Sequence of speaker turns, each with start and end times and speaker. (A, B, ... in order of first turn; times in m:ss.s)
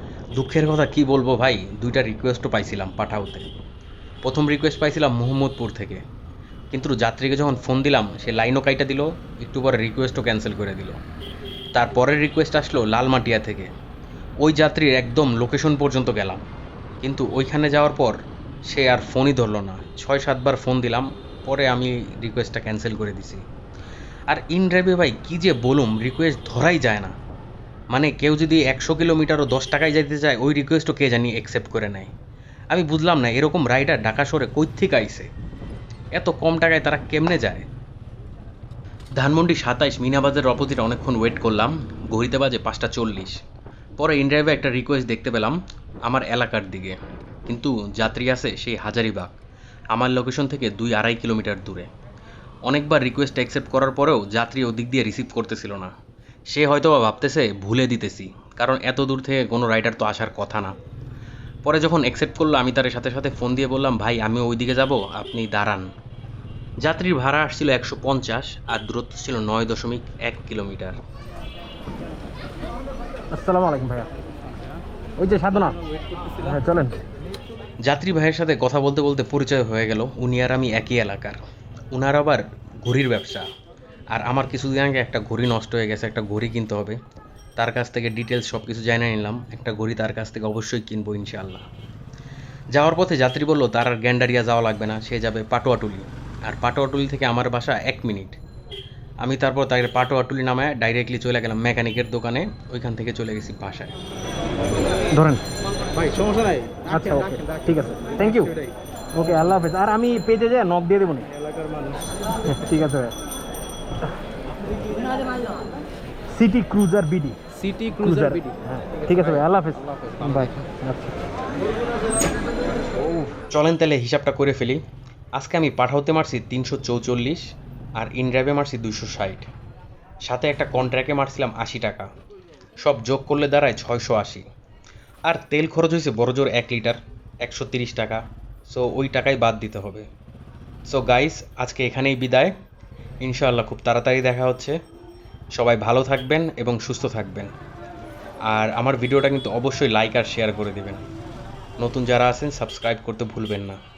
0:00.3-0:03.5 A
0:04.2-0:06.0 A
0:06.7-0:11.0 A
0:11.7-0:13.7 A
0:14.4-0:16.4 A
0:17.0-0:23.4 A
0:24.3-0:27.1 A
0:27.9-0:32.1 A
0:32.7-0:35.3 A
0:36.1-0:37.6 A
0:39.2-0:43.4 A
0:44.0-0:49.3 A
0:49.9-0:51.9 A
0:52.7-0:55.9 A
0:56.5-1:00.7 A
1:01.6-1:05.9 A
1:06.8-1:11.0 A
1:13.3-1:14.1 B
1:15.2-1:15.8 B
1:16.3-1:17.0 B
1:17.8-1:21.4 A
1:21.9-1:23.5 A
1:24.1-1:27.0 A
1:27.6-1:31.6 A
1:32.7-1:38.4 A
1:39.2-1:43.9 A
1:45.1-1:45.4 B
1:46.0-1:46.8 C
1:46.8-1:48.6 B
1:49.1-1:51.3 B
1:51.5-1:52.0 C
1:52.4-1:53.1 B
1:56.3-2:01.2 B
1:57.6-1:58.5 C
2:03.5-2:04.8 A
2:05.4-2:07.4 A
2:08.0-2:09.5 A
2:10.2-2:12.1 A
2:12.8-2:14.4 A
2:15.3-2:20.1 A
2:20.9-2:22.5 A
2:23.2-2:24.8 A
2:25.5-2:27.5 A
2:28.5-2:31.0 A
2:31.8-2:33.8 A